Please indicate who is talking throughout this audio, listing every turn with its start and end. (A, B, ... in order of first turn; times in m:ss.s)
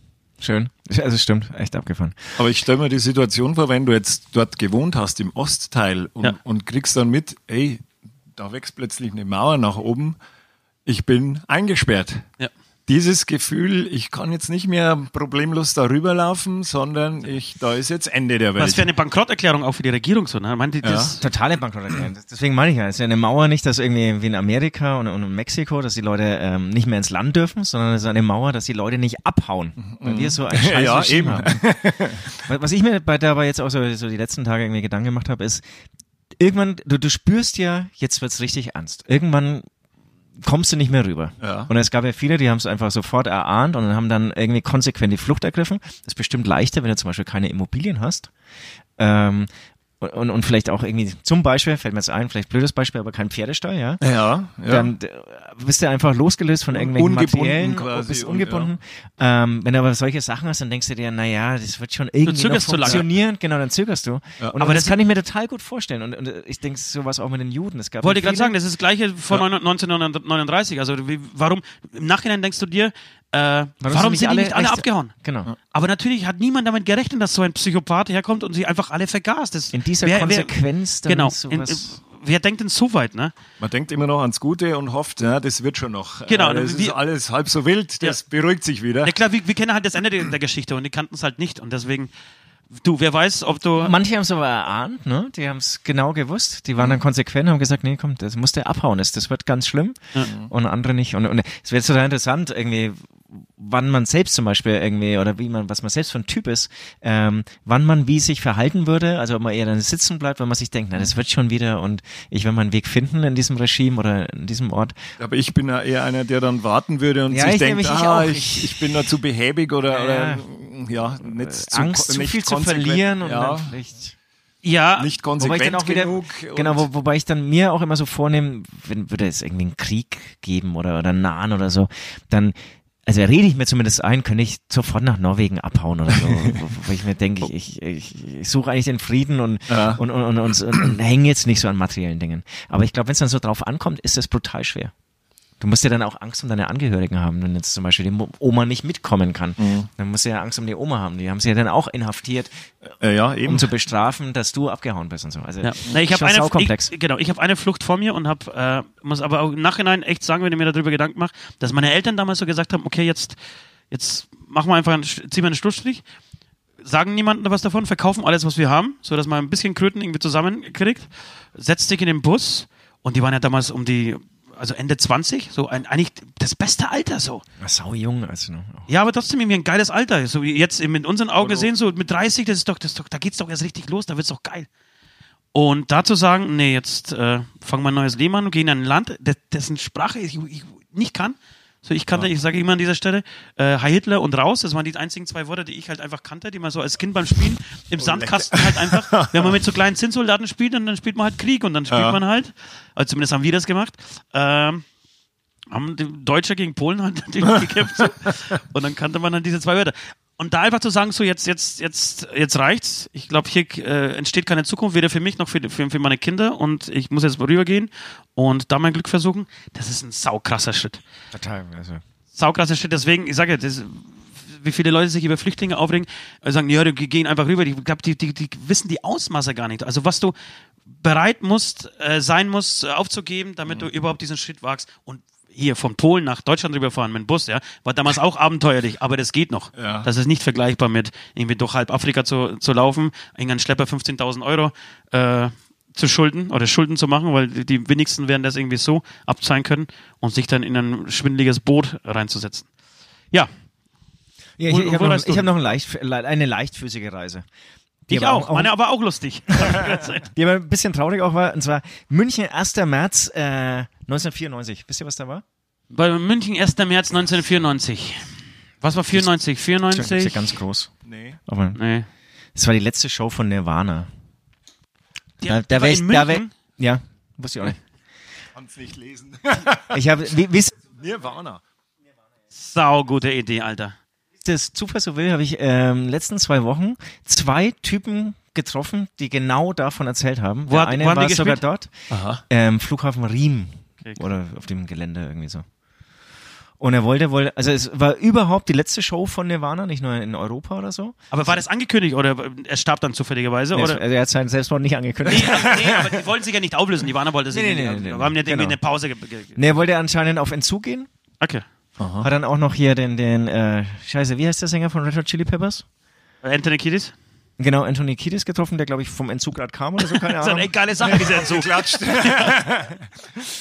0:00.4-0:02.4 A
0:02.4-0:07.8 B
0:08.4-0:10.2 B
0:10.8-0:12.3 B
0:12.9-0:18.9 B
0:18.6-0:21.2 C
0:20.8-0:21.1 B
0:21.2-0:31.6 A
0:29.8-0:32.3 B
0:32.4-0:35.6 A
0:36.4-0:39.6 A
0:40.4-0:48.3 A
0:41.4-0:41.7 B
0:49.0-0:49.5 A
0:50.0-0:54.0 A
0:54.0-0:54.9 B
0:54.6-1:08.6 A
0:56.7-0:58.7 B
1:02.2-1:03.0 C
1:04.6-1:05.0 C
1:08.0-1:15.1 C
1:13.8-1:15.5 A
1:15.7-1:20.5 C
1:19.7-1:22.0 A
1:21.0-1:23.3 C
1:23.6-1:29.1 B
1:26.3-1:27.0 C
1:29.0-1:32.1 C
1:32.7-1:33.9 C
1:33.8-1:55.0 A
1:55.2-2:03.7 B
1:57.3-1:59.1 A
1:59.9-2:00.4 A
2:01.2-2:04.1 A
2:04.6-2:05.1 C
2:05.0-2:06.9 B
2:05.4-2:24.9 A
2:16.3-2:16.6 B
2:19.7-2:20.0 B
2:25.6-2:36.9 A
2:29.6-2:29.9 B
2:33.0-2:33.7 B
2:35.6-2:43.4 C
2:43.9-2:46.0 C
2:46.8-2:57.4 C
2:57.6-2:58.9 A
2:58.9-3:04.7 C
3:01.4-3:01.7 B
3:05.5-3:24.8 C
3:18.0-3:19.6 B
3:21.9-3:22.2 B
3:25.7-3:41.0 C
3:41.3-3:42.0 A
3:42.3-3:50.3 C
3:50.9-4:12.7 C
3:59.8-4:00.1 B
4:14.6-4:17.5 A
4:14.7-4:15.5 C
4:18.1-4:18.7 A
4:18.1-4:20.3 C
4:19.7-4:25.4 A
4:25.9-4:28.3 C
4:28.8-4:30.4 C
4:29.9-4:30.9 A
4:31.0-4:31.4 B
4:31.5-4:31.8 A
4:31.7-4:32.1 C
4:32.5-4:34.1 A
4:35.4-4:36.5 C
4:35.4-4:37.8 A
4:38.5-4:40.0 B
4:39.9-4:40.7 A
4:41.0-4:41.6 B
4:42.5-4:43.9 C
4:44.4-4:51.9 A
4:50.7-4:51.6 C
4:52.1-4:52.4 B
4:52.5-4:55.6 A
4:56.8-5:01.2 A
5:01.3-5:04.0 C
5:03.7-5:05.8 A
5:05.3-5:09.8 C
5:05.3-5:05.8 B
5:07.5-5:08.8 A
5:09.6-5:11.1 A
5:12.0-5:12.3 B
5:12.2-5:15.8 A
5:16.4-5:17.1 C
5:17.6-5:21.4 A
5:20.4-5:22.5 C
5:21.0-5:23.1 B